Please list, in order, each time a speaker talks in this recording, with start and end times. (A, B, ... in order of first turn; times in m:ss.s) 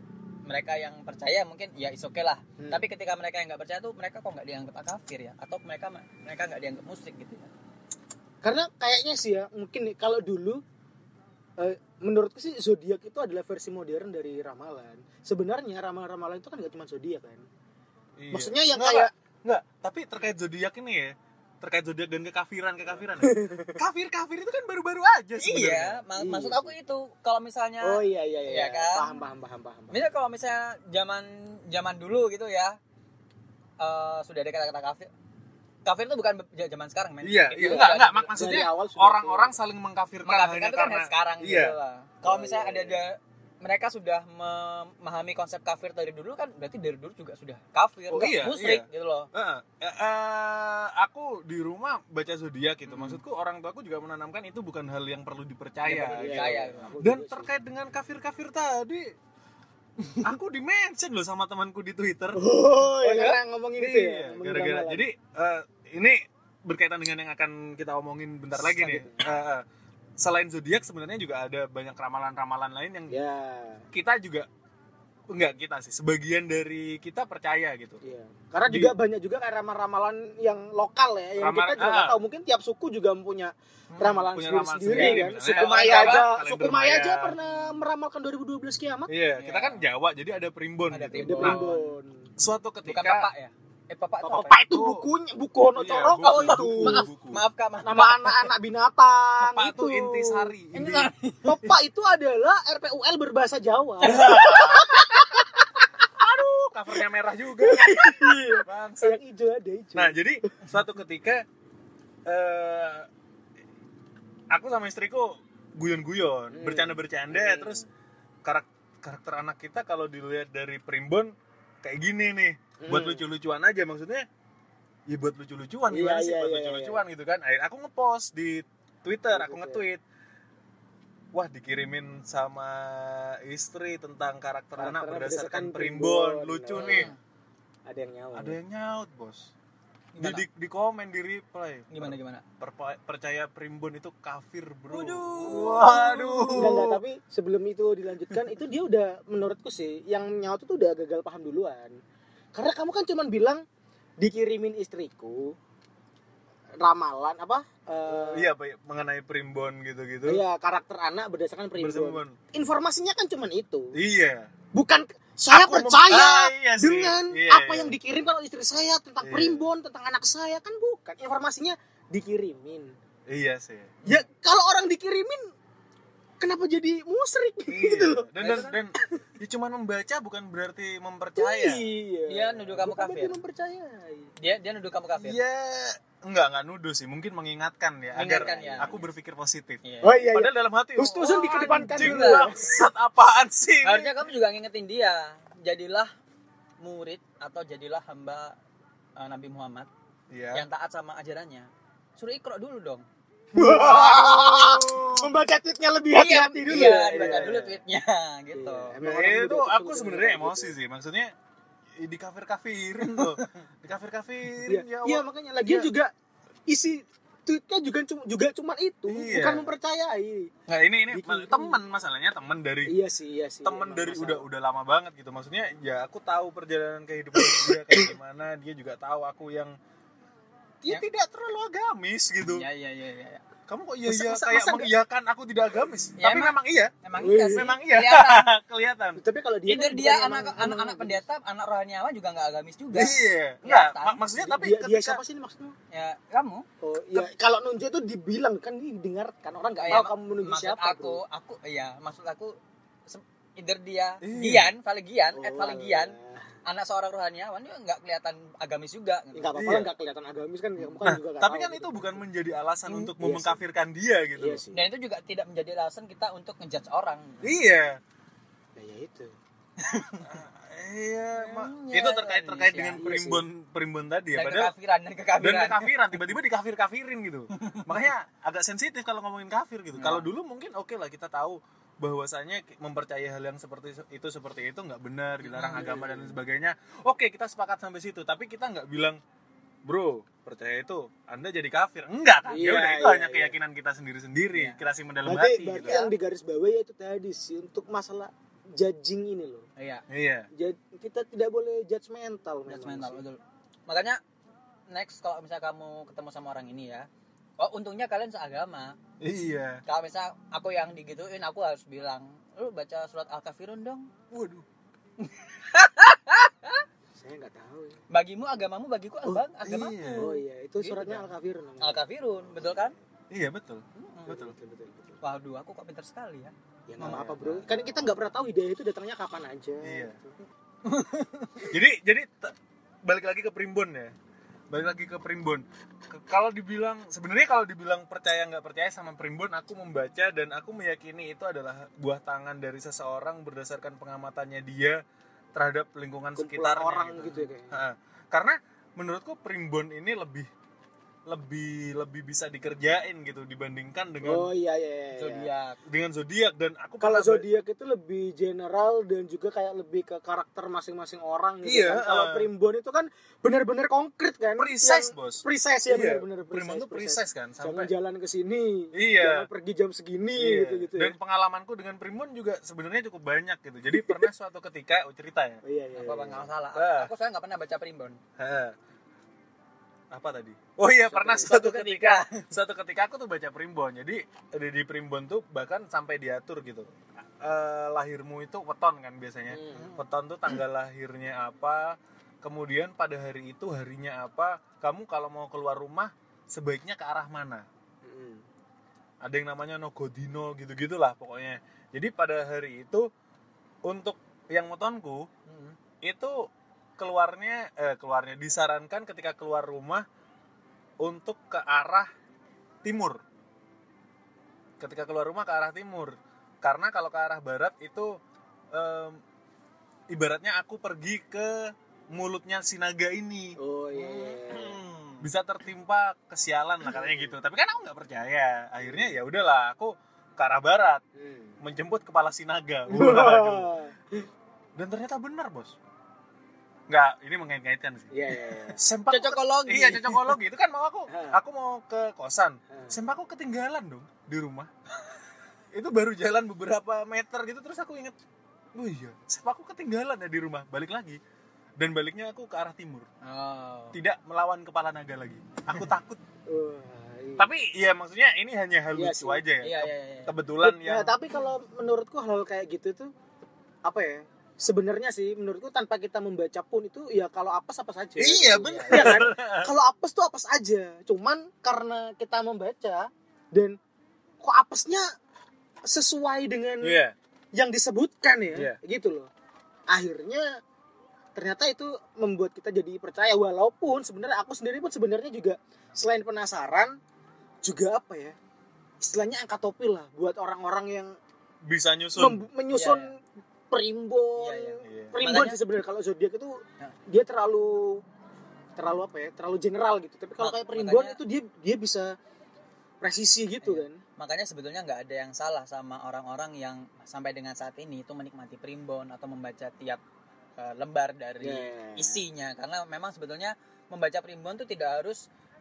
0:00.4-0:07.5 A
0:08.4-0:10.6 B
0:11.6-0:17.4 B
0:18.2-0:26.0 C
0:18.3-0:19.1 B
0:23.2-0:23.8 B
0:25.4-0:29.1 A
0:26.2-0:26.7 B
0:27.8-0:30.0 B
0:29.9-0:32.8 A
0:33.8-0:35.1 A
0:35.8-0:38.4 A
0:37.2-0:41.8 C
0:37.6-0:39.5 B
0:40.2-0:49.3 A
0:42.2-0:43.0 B
0:48.1-0:59.1 C
0:52.9-0:53.2 A
0:55.9-0:57.5 B
0:55.9-0:56.9 A
1:00.2-1:02.4 C
1:02.4-1:05.0 B
1:03.0-1:09.6 C
1:08.6-1:09.3 B
1:10.2-1:13.2 C
1:13.1-1:13.8 B
1:13.9-1:14.5 C
1:15.3-1:18.0 C
1:18.0-1:29.1 B
1:18.7-1:19.0 C
1:21.4-1:22.2 C
1:23.9-1:27.4 C
1:24.9-1:26.2 A
1:29.1-1:31.7 C
1:29.4-1:29.8 A
1:30.9-1:31.9 A
1:31.2-1:32.3 B
1:32.4-1:33.3 C
1:32.8-1:34.6 A
1:34.2-1:37.1 B
1:34.6-1:35.1 C
1:35.8-1:37.4 C
1:36.2-1:38.5 A
1:37.8-1:40.5 B
1:39.4-1:41.1 C
1:40.7-1:41.6 A
1:41.4-1:45.8 B
1:44.0-1:44.6 A
1:44.0-1:45.0 C
1:46.2-1:49.2 C
1:47.5-1:50.5 B
1:49.9-1:51.4 C
1:52.2-1:53.1 C
1:54.5-1:57.8 C
1:56.5-1:57.9 B
1:58.4-2:04.3 C
2:02.8-2:03.2 B
2:05.1-2:10.0 C
2:05.9-2:07.0 B
2:09.3-2:09.8 B
2:11.3-2:17.1 C
2:14.8-2:17.1 B
2:16.7-2:17.2 A
2:17.8-2:18.6 B
2:18.3-2:19.5 C
2:20.1-2:20.4 A
2:20.2-2:27.0 C
2:21.9-2:22.4 A
2:24.9-2:26.6 A
2:25.4-2:31.9 B
2:32.5-2:33.6 B
2:34.2-2:35.6 B
2:36.8-2:38.5 B
2:38.1-2:40.4 C
2:40.2-2:43.9 B
2:41.8-2:42.4 C
2:43.9-2:44.5 C
2:44.7-2:52.9 B
2:45.5-2:48.0 C
2:49.2-2:49.6 C
2:53.3-2:54.1 C
2:54.0-2:55.4 B
2:56.4-2:58.3 B
2:57.7-3:01.8 C
2:58.4-2:58.8 A
3:01.4-3:04.3 B
3:02.3-3:03.4 A
3:04.4-3:05.4 A
3:05.2-3:14.2 C
3:08.1-3:08.9 A
3:09.8-3:10.2 A
3:10.0-3:12.8 B
3:11.7-3:12.5 A
3:13.8-3:16.1 A
3:16.8-3:18.6 A
3:19.2-3:19.9 A
3:20.3-3:20.6 C
3:20.5-3:23.0 A
3:23.5-3:27.6 B
3:23.6-3:25.3 C
3:26.1-3:28.9 A
3:26.7-3:27.8 C
3:28.5-3:30.7 B
3:29.0-3:31.3 C
3:32.0-3:35.9 C
3:34.6-3:36.1 B
3:36.7-3:40.5 B
3:39.1-3:39.7 C
3:40.7-3:43.0 C
3:41.1-3:41.8 B
3:42.8-3:44.4 B
3:43.6-3:49.8 C
3:47.4-3:48.1 B
3:50.8-3:52.6 C
3:52.5-3:53.4 A
3:53.7-3:56.9 C
3:54.0-3:54.9 B
3:56.2-3:58.5 A
3:57.2-3:57.8 B
3:57.5-3:59.2 C
3:59.2-4:01.2 B
3:59.7-4:04.2 A
4:02.9-4:05.2 C
4:04.4-4:05.7 B
4:05.9-4:06.6 A
4:06.8-4:11.2 B
4:09.8-4:12.6 A
4:13.1-4:19.5 A
4:14.2-4:14.7 C
4:15.3-4:16.4 B
4:19.3-4:22.2 B
4:19.6-4:19.9 C
4:21.0-4:24.6 C
4:22.9-4:23.6 B
4:24.4-4:24.8 B
4:24.7-4:27.5 A
4:27.4-4:28.0 C
4:28.8-4:29.3 B
4:29.8-4:30.2 A
4:30.2-4:34.7 C
4:31.4-4:33.0 A
4:33.0-4:33.4 B
4:34.3-4:35.9 A
4:35.4-4:49.2 C
4:37.5-4:37.8 A
4:39.9-4:40.3 A
4:45.4-4:46.0 A
4:45.7-4:46.3 B
4:49.8-4:56.0 C
4:52.5-4:53.5 B
4:54.5-4:54.8 A
4:55.2-4:59.6 B
4:55.8-4:56.1 A
4:59.8-5:00.0 A
5:00.1-5:00.5 C
5:00.5-5:03.2 B
5:02.7-5:04.2 A
5:04.9-5:07.1 A
5:07.6-5:09.0 A
5:09.2-5:09.8 C
5:09.8-5:14.1 A
5:14.3-5:14.6 C
5:15.2-5:16.8 A
5:17.2-5:18.0 B
5:18.1-5:21.3 A
5:19.6-5:20.3 C
5:20.1-5:22.9 B
5:21.8-5:22.9 A
5:23.3-5:24.5 C
5:23.9-5:24.5 A
5:24.3-5:25.2 B
5:25.2-5:27.7 A
5:26.9-5:30.3 B
5:29.8-5:30.2 C
5:31.6-5:34.1 C
5:34.7-5:45.0 C
5:45.5-5:50.5 C
5:46.4-5:47.8 B
5:51.3-5:54.5 C
5:54.2-5:55.5 B
5:55.1-5:55.8 A
5:55.8-5:57.4 C
5:57.0-6:11.1 B
6:01.6-6:02.5 C
6:04.6-6:07.9 C
6:08.9-6:09.5 C
6:10.4-6:15.6 C
6:14.0-6:14.3 B
6:15.6-6:16.5 B
6:16.0-6:18.2 A
6:16.7-6:17.1 C
6:18.4-6:18.8 C
6:20.1-6:37.6 C
6:21.1-6:21.6 B
6:21.4-6:22.4 A
6:29.5-6:29.9 B
6:38.0-6:38.4 B
6:39.2-6:43.1 C
6:43.8-6:45.3 C
6:45.5-6:45.7 A
6:46.0-6:50.0 C
6:51.0-6:52.1 C
6:52.8-6:53.2 C
6:54.8-6:58.2 C
6:58.7-6:59.2 C
7:00.1-7:11.0 C
7:03.6-7:04.8 B
7:11.2-7:11.6 B
7:11.6-7:13.7 C
7:12.9-7:14.3 B
7:14.8-7:15.8 C
7:16.9-7:24.7 C
7:18.1-7:18.8 B
7:19.1-7:20.3 A
7:21.1-7:21.4 B
7:25.7-7:28.2 C
7:28.7-7:31.2 C
7:31.8-7:33.1 C
7:33.2-7:34.0 A
7:33.9-7:36.2 C
7:36.5-7:37.5 B
7:37.4-7:41.1 C
7:38.9-7:39.4 B
7:39.6-7:40.3 A
7:40.6-7:43.1 B
7:43.8-7:53.8 B
7:48.2-7:49.7 C
7:48.6-7:49.3 A
7:54.4-7:55.0 B
7:55.8-7:57.0 B
7:56.8-7:57.2 C
7:57.5-7:59.3 B
7:58.5-7:58.8 C
7:59.9-8:00.5 B
8:01.3-8:07.0 B
8:07.6-8:08.3 B
8:09.0-8:11.1 B
8:11.6-8:12.4 C
8:12.2-8:13.2 B
8:12.7-8:13.1 A
8:13.7-8:18.0 B
8:14.4-8:15.6 A
8:14.8-8:15.1 C
8:18.8-8:22.1 B
8:20.4-8:21.2 A
8:23.0-8:24.0 B
8:23.6-8:30.0 A
8:30.6-8:35.3 A
8:31.4-8:32.2 B